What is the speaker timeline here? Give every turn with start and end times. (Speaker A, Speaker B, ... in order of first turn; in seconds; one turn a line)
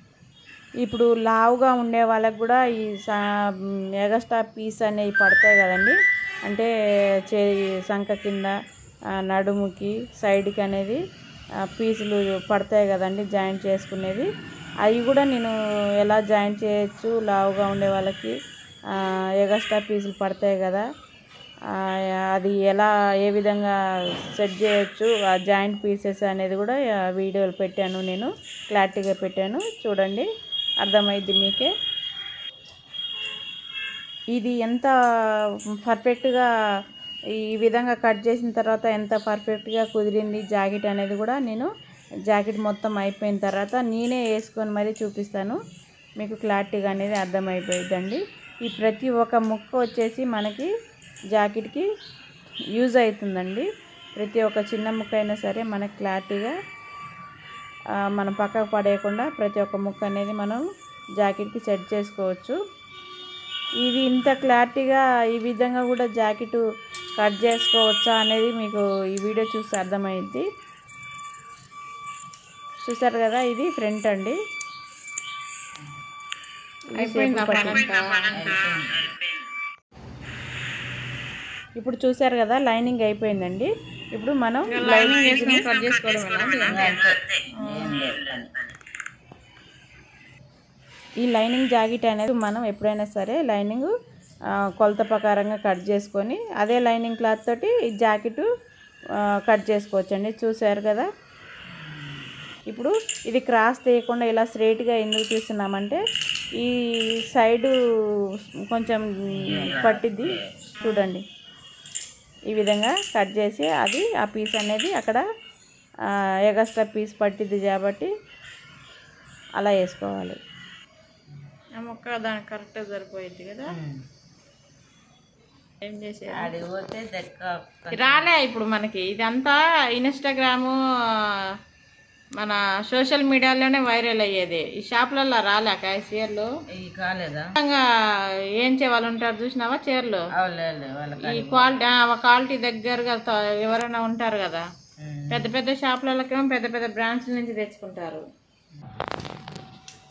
Speaker A: 0.8-3.2
Speaker A: 4.0-6.7
Speaker A: 7.3-8.5
Speaker A: 9.3-11.0
Speaker A: 11.8-14.3
Speaker A: 14.8-18.3
Speaker A: 19.4-20.9
Speaker A: 22.3-23.8
Speaker A: 24.4-30.3
Speaker A: 30.8-31.7
Speaker A: 34.3-34.9
Speaker A: 35.9-36.5
Speaker A: 37.4-41.7
Speaker A: 42.3-45.6
Speaker A: 46.2-50.7
Speaker A: 51.3-51.9
Speaker A: 52.8-53.7
Speaker A: 54.2-56.5
Speaker A: 58.1-60.6
Speaker A: 61.2-62.6
Speaker A: 63.8-66.6
Speaker A: 67.2-70.5
Speaker A: 72.8-74.4
Speaker A: 77.0-77.8
Speaker B: 77.0-78.6
Speaker C: 78.3-79.1
Speaker A: 81.8-85.7
Speaker B: 84.7-87.0
Speaker C: 86.7-88.7
Speaker B: 87.6-88.0
Speaker A: 91.2-93.9
Speaker A: 94.8-98.5
Speaker A: 99.5-101.1
Speaker C: 101.7-102.3
Speaker A: 102.7-106.0
Speaker A: 107.3-107.7
Speaker A: 108.7-111.2
Speaker C: 109.3-110.5
Speaker A: 112.5-115.2
Speaker A: 116.5-118.1
Speaker A: 119.6-120.4
Speaker B: 121.8-123.7
Speaker C: 123.7-124.0
Speaker B: 125.8-126.5
Speaker C: 126.3-128.3
Speaker B: 127.9-131.2
Speaker B: 132.4-136.5
Speaker C: 136.7-137.5
Speaker B: 137.6-137.8
Speaker B: 138.6-140.3
Speaker C: 140.3-141.8
Speaker B: 141.2-144.6
Speaker C: 145.0-145.5
Speaker B: 145.3-148.2